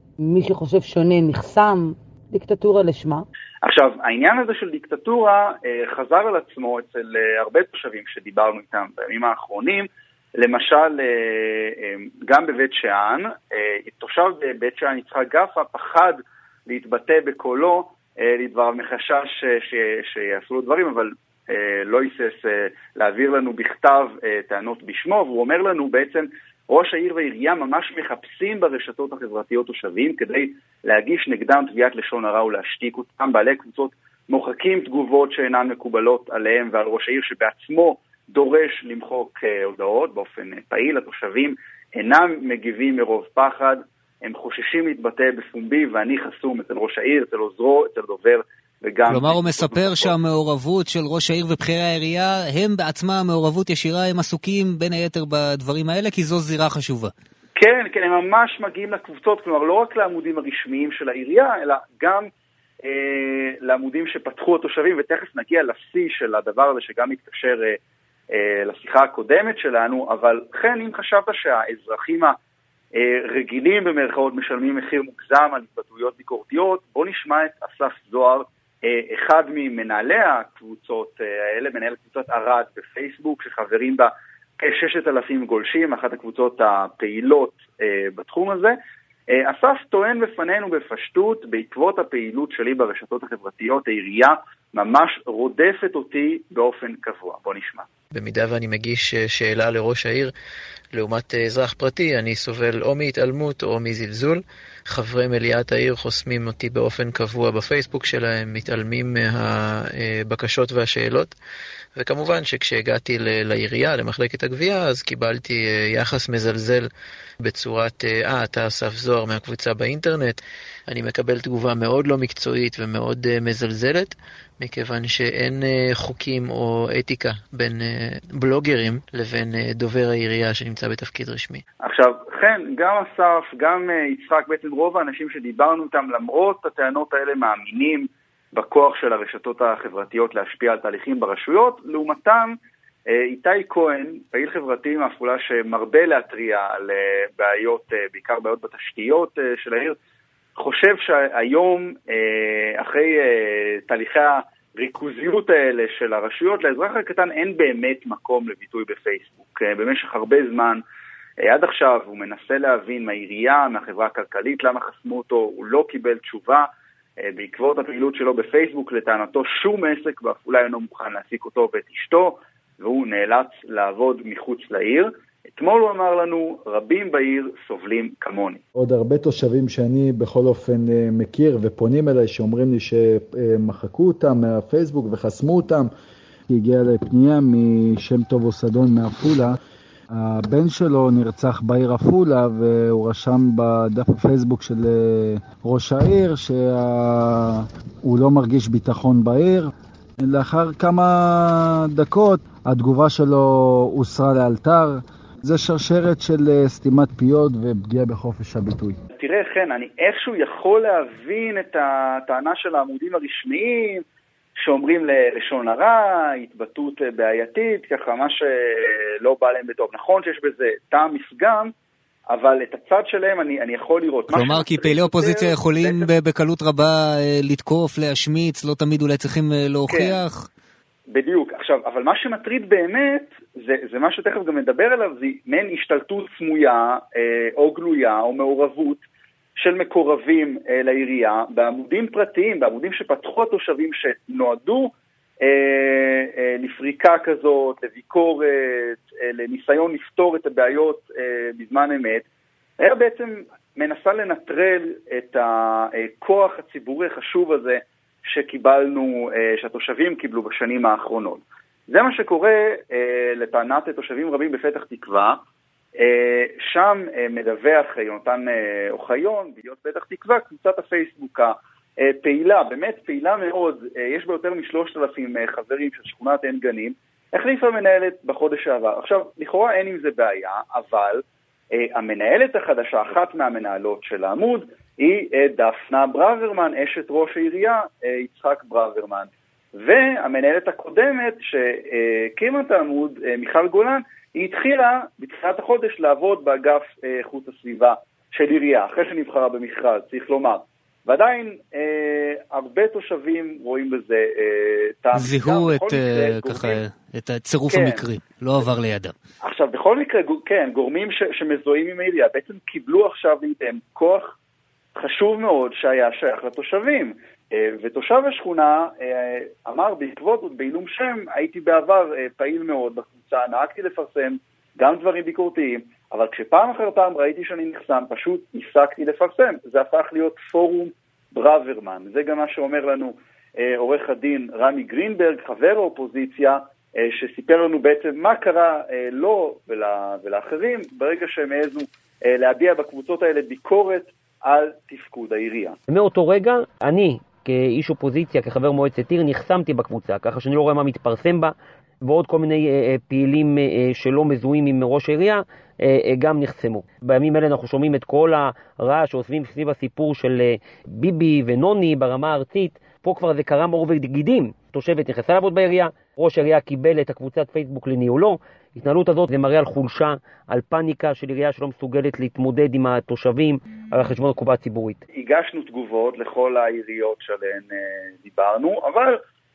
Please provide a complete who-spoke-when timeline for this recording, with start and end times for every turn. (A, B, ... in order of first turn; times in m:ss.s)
0:00.2-0:03.2 A
0:03.6-0:50.1 B
0:49.1-0:57.1 C
0:57.6-1:02.3 B
1:02.8-1:07.8 B
1:08.3-1:12.4 B
1:12.9-1:28.8 B
1:29.3-1:37.9 B
1:38.1-1:40.3 D
1:40.9-1:51.3 D
1:52.0-1:56.8 D
1:57.4-2:00.4 D
2:00.9-2:11.6 D
2:11.8-2:22.6 B
2:23.1-2:30.0 B
2:30.6-2:40.8 B
2:41.4-2:46.7 B
2:47.2-2:58.6 B
2:58.8-3:05.9 E
3:06.5-3:09.5 E
3:10.5-3:13.4 E
3:13.9-3:14.8 E
3:15.7-3:16.5 E
3:18.1-3:19.5 E
3:22.0-3:23.4 E
3:24.0-3:24.8 E
3:25.5-3:28.8 E
3:29.2-3:34.0 B
3:34.6-3:41.7 B
3:42.3-3:46.1 B
3:44.3-3:50.5 C
3:49.9-3:50.2 B
3:51.1-3:59.0 B
3:59.6-4:12.2 B
4:12.8-4:25.4 B
4:26.0-4:41.2 B
4:41.7-5:06.8 B
5:05.1-5:09.1 C
5:07.7-5:08.0 B
5:09.4-5:14.3 B
5:15.0-5:45.8 B
5:45.9-6:15.0 F
6:15.2-6:19.2 B